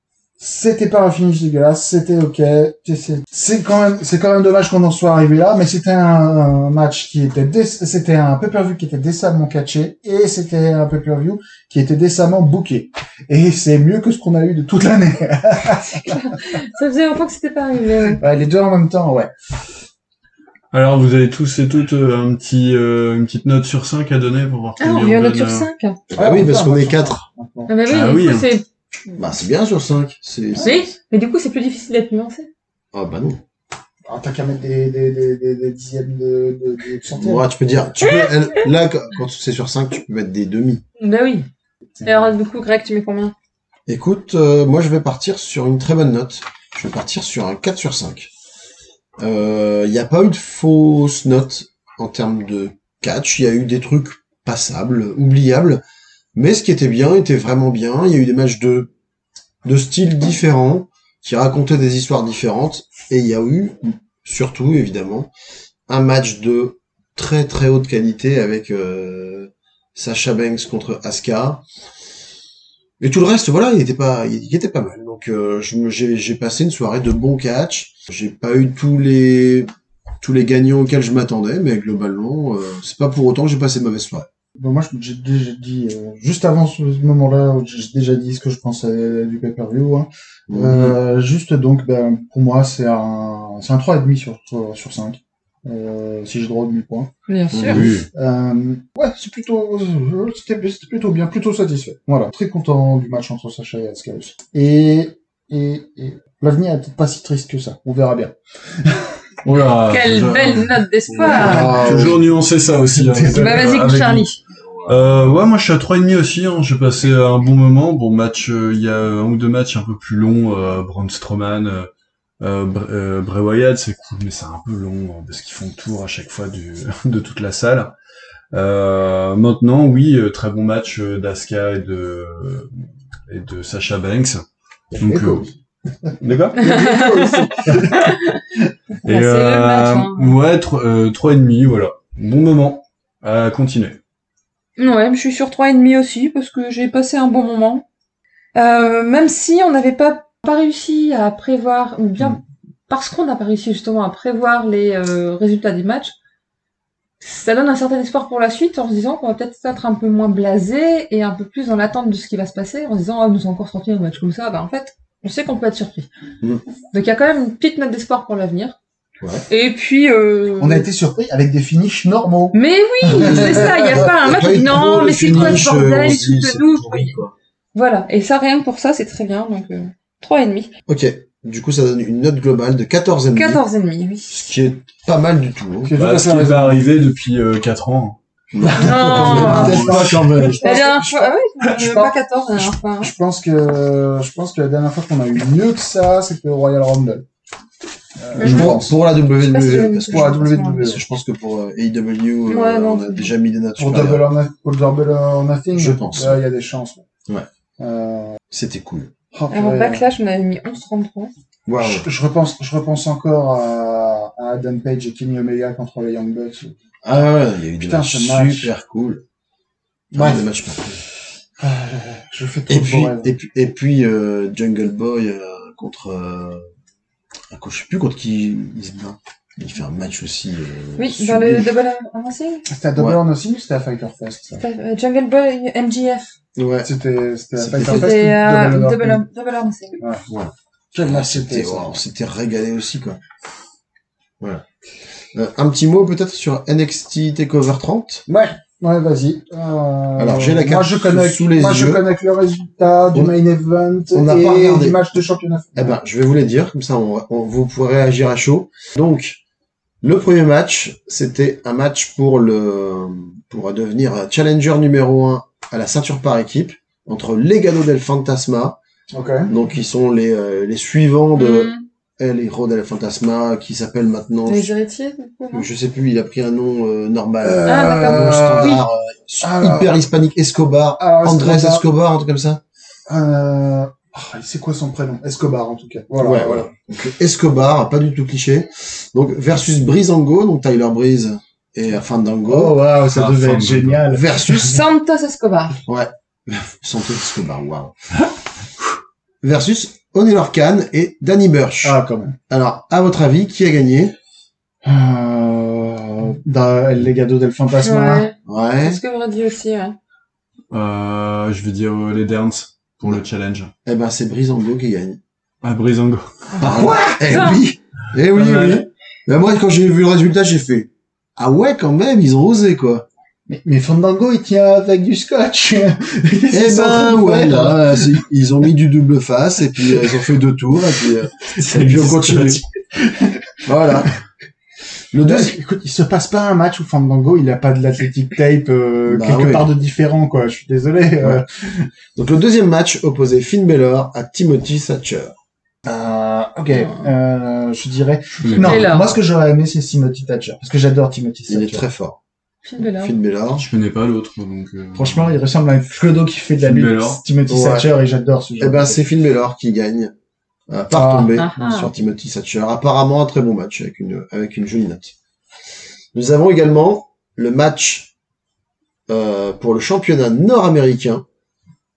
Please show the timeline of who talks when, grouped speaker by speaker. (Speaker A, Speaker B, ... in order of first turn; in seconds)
Speaker A: 0.4-16.2, 18.2-19.3, 26.1-27.7, 34.1-37.4, 84.6-97.1, 97.7-109.1, 111.3-112.2, 112.9-113.7, 134.9-138.1, 170.6-174.1, 175.3-175.9, 185.8-186.8, 188.9-191.0, 191.7-197.2, 198.2-199.0, 200.1-201.0, 203.8-207.0, 207.8-208.4, 209.3-210.1, 211.8-216.8, 217.8-218.7, 220.1-220.5, 221.6-223.3, 232.7-234.6, 236.8-239.2, 240.0-240.2, 240.9-242.0, 248.3-256.0, 269.1-269.5, 277.4-278.8, 279.4-280.0, 281.0-281.9, 283.1-286.7, 292.5-294.7, 301.8-302.4, 304.8-308.2, 316.6-317.1, 323.5-328.2, 333.0-334.1, 335.2-341.9, 345.8-351.8, 354.9-359.0, 360.9-361.4
Speaker B: 16.0-18.2, 24.8-26.0, 27.7-28.6, 30.6-32.5, 38.0-38.3, 41.0-41.5, 42.0-43.3, 97.3-97.9, 109.9-111.8, 113.3-114.4, 136.6-138.4, 139.0-140.3, 144.8-147.8, 148.5-156.1, 157.2-166.1, 166.9-168.8, 169.5-170.9, 172.5-177.2, 177.7-180.7, 183.3-184.4, 188.7-190.0, 190.6-193.1, 198.4-198.7, 199.4-200.8, 202.5-203.3, 209.5-211.3, 231.0-232.6, 234.5-236.3, 237.8-240.0, 271.4-271.8, 274.5-275.6, 277.7-278.8, 294.5-295.8, 307.8-310.0, 316.5-317.6, 348.6-349.1, 352.6-353.1, 361.3-361.9
Speaker C: 20.7-25.7, 27.9-28.5, 97.7-98.1, 109.4-114.3, 114.8-121.9, 122.4-127.9, 128.5-132.7, 133.3-134.4, 135.0-135.4, 136.2-136.7, 139.0-144.0, 186.0-188.2, 188.8-190.5, 198.4-198.8, 293.0-294.1, 310.7-313.7, 315.6-316.4, 318.3-318.9, 331.5-332.6, 348.4-348.9, 353.5-355.4, 356.6-357.2
Speaker D: 26.1-27.2, 29.1-30.9, 32.9-33.4, 37.1-40.8, 43.9-48.3, 49.2-55.8, 56.3-58.9, 59.6-65.3, 65.9-71.6, 73.0-79.7, 80.2-84.3, 90.5-90.9, 97.5-97.8, 111.3-112.2, 114.8-115.3, 169.2-169.4, 173.1-177.3, 180.9-183.6, 184.3-185.9, 188.5-191.0, 198.4-204.3, 205.7-206.4, 208.5-209.1, 211.7-212.1, 217.0-219.2, 220.1-221.0, 222.7-226.7, 227.5-231.7, 232.9-233.2, 236.6-236.9, 237.6-238.2, 240.3-243.2, 245.3-248.2, 250.2-252.0, 254.1-255.0, 255.7-259.4, 260.0-268.8, 269.5-274.7, 275.5-282.6, 286.2-292.8, 294.1-294.8, 295.9-297.9, 299.4-302.0, 302.5-304.1, 308.4-309.0, 313.8-315.2, 316.6-323.1, 326.5-332.6, 333.6-334.1, 335.1-335.5, 339.1-339.7, 342.1-345.3, 351.5-352.2, 352.9-353.6, 357.5-357.9, 358.6-360.1, 360.7-365.1, 366.1-368.1, 369.1-371.2